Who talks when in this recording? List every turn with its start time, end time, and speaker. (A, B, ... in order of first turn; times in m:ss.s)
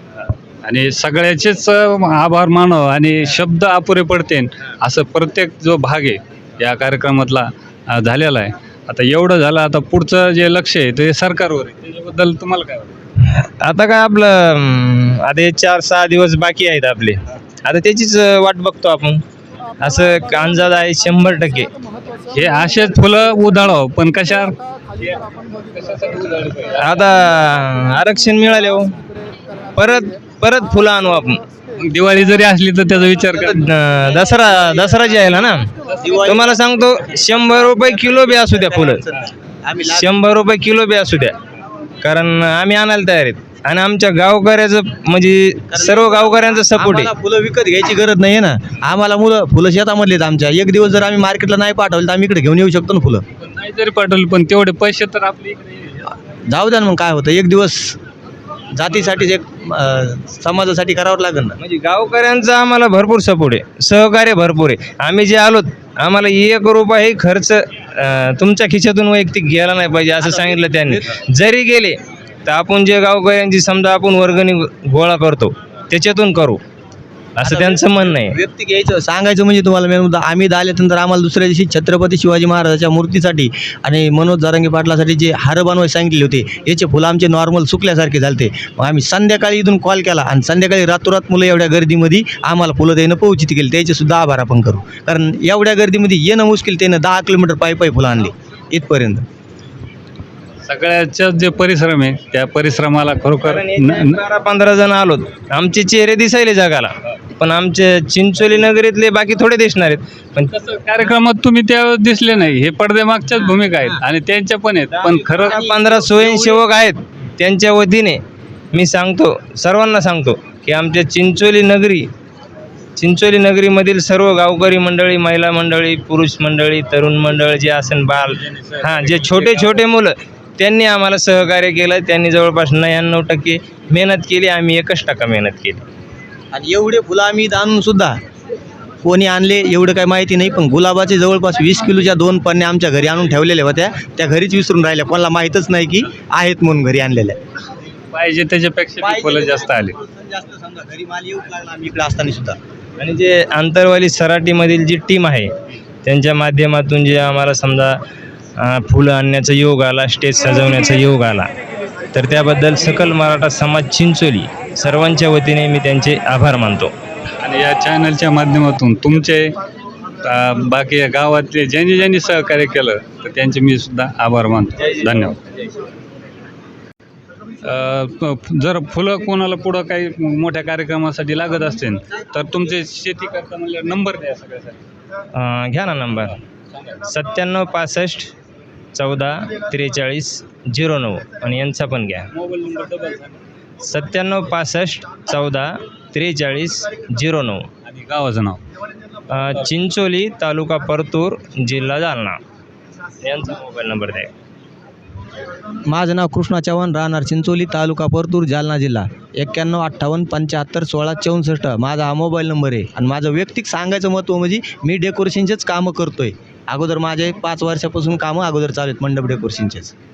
0:00.6-0:13.0 A
0:13.2-0:19.2 B
0:19.8-0:21.7 B
0:22.3-0:27.0 A
0:26.8-0:29.0 B
0:29.8-0:31.4 B
0:31.8-0:33.7 A
0:33.5-0:35.7 B
0:36.0-0:40.1 C
0:36.2-0:39.0 B
0:39.9-0:41.4 B
0:42.0-0:47.1 B
0:45.7-0:53.2 C
0:53.4-0:56.1 A
0:56.5-0:58.0 C
0:58.7-1:01.6 C
1:01.6-1:16.6 B
1:10.2-1:11.2 C
1:17.4-1:18.4 B
1:17.4-1:39.2 C
1:40.6-1:44.2 A
1:43.4-1:50.5 B
1:50.5-1:55.6 A
1:54.9-1:56.6 C
1:55.4-1:58.2 B
1:58.7-2:02.1 B
2:03.0-2:15.8 B
2:08.3-2:09.8 A
2:16.5-2:18.2 C
2:19.0-2:27.4 C
2:28.1-2:30.0 A
2:29.0-2:32.6 C
2:33.0-2:35.5 B
2:36.0-2:38.0 B
2:38.6-2:41.5 B
2:42.1-2:46.9 B
2:47.4-2:49.5 A
2:50.2-2:55.4 A
2:54.8-2:55.3 B
2:57.6-3:04.8 A
3:05.3-3:06.4 B
3:07.0-3:08.3 B
3:09.0-3:12.3 B
3:12.3-3:13.4 A
3:13.8-3:17.7 B
3:17.8-3:18.6 A
3:19.3-3:22.4 B
3:23.2-3:24.3 B
3:25.9-3:39.9 C